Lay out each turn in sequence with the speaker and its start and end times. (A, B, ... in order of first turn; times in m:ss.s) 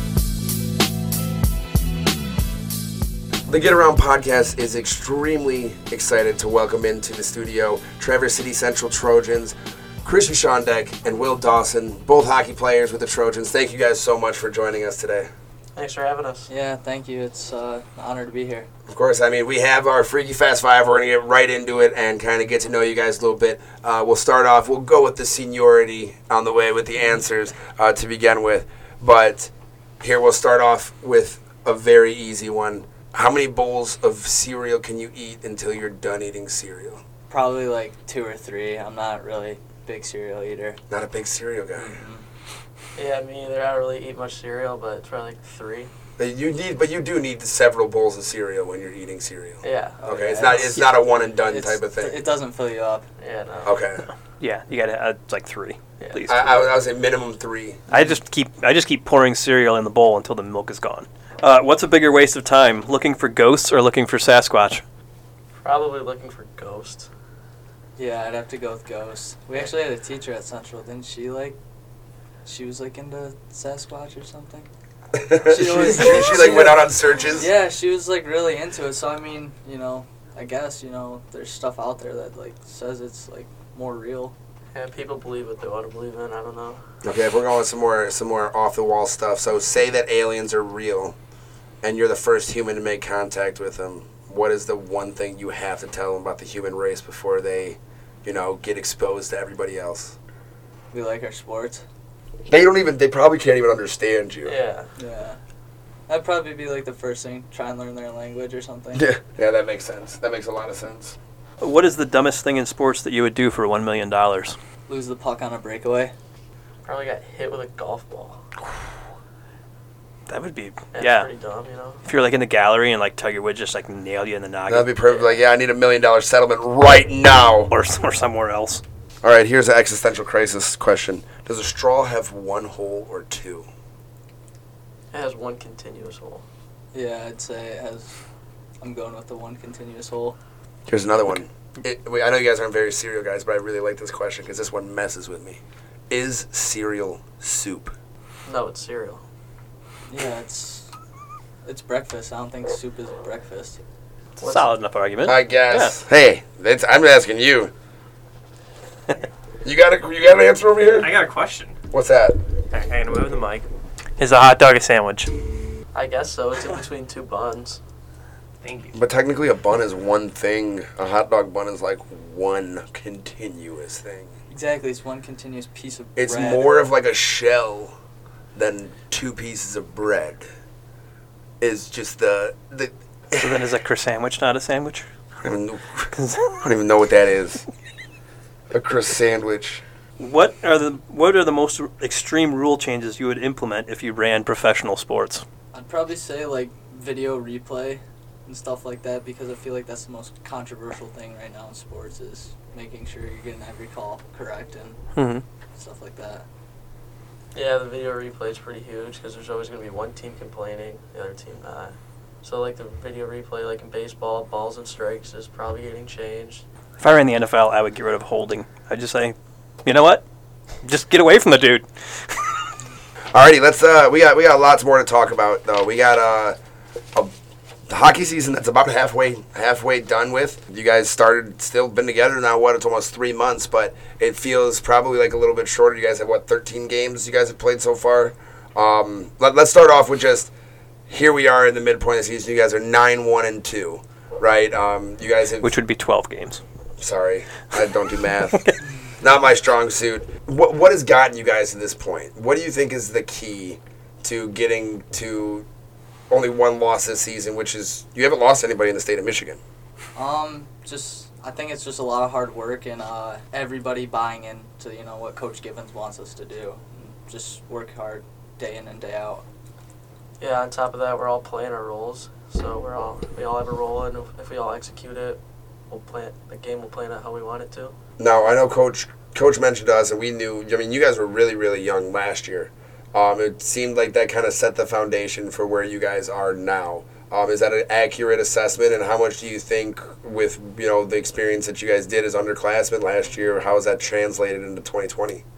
0:03.5-0:15.3 A
0:15.8-0:16.5 B
0:16.5-0:18.7 C
0:18.9-0:37.0 A
0:37.3-0:40.8 C
0:40.9-0:42.0 A
0:41.8-0:42.2 C
0:43.0-0:45.9 B
0:46.2-0:52.2 A
0:49.6-0:50.0 B
0:50.0-0:53.0 C
0:53.2-0:53.8 B
0:53.6-0:54.0 A
0:54.4-0:56.7 D
0:56.0-0:56.4 B
0:56.3-0:57.8 A
0:57.9-1:04.8 D
1:05.6-1:07.1 B
1:08.0-1:11.6 C
1:12.4-1:14.7 C
1:15.2-1:17.5 A
1:15.4-1:24.3 C
1:24.7-1:26.8 B
1:27.0-1:31.1 A
1:31.8-1:40.1 A
1:40.9-1:41.8 C
1:42.5-1:44.6 A
1:44.4-1:44.9 B
1:45.0-1:45.4 C
1:46.1-1:49.1 C
1:49.0-1:51.2 A
1:51.6-1:54.6 D
1:54.9-1:56.1 C
1:56.8-1:58.4 B
2:00.3-2:01.3 D
2:00.9-2:02.0 B
2:02.0-2:04.9 D
2:04.7-2:07.7 A
2:07.7-2:08.8 D
2:09.2-2:13.6 A
2:15.1-2:16.4 B
2:16.9-2:18.1 C
2:18.8-2:20.4 C
2:20.9-2:27.9 A
2:28.4-2:29.2 B
2:30.1-2:30.9 C
2:31.6-2:33.8 C
2:34.4-2:36.0 D
2:34.4-2:34.7 B
2:35.2-2:37.7 A
2:39.6-2:41.1 A
2:41.0-2:41.8 E
2:41.9-2:42.4 A
2:42.7-2:43.6 E
2:44.2-2:45.3 E
2:44.2-2:44.5 D
2:45.9-2:47.8 B
2:48.6-2:49.0 E
2:48.9-2:54.3 A
2:54.5-2:56.7 C
2:56.2-2:57.9 A
2:58.5-3:00.4 A
3:01.6-3:03.5 A
3:03.4-3:05.0 D
3:05.4-3:07.6 A
3:06.1-3:06.5 D
3:08.7-3:09.8 A
3:10.2-3:15.4 D
3:15.7-3:25.0 C
3:25.2-3:25.4 D
3:25.8-3:26.4 C
3:27.5-3:36.6 B
3:37.0-3:40.2 D
3:40.8-3:42.5 D
3:43.3-3:46.6 A
3:47.9-4:00.5 A
4:01.1-4:05.7 A
4:05.6-4:06.6 D
4:07.0-4:15.6 A
4:16.3-4:19.6 A
4:20.2-4:29.4 C
4:30.4-4:37.9 B
4:38.2-4:55.4 A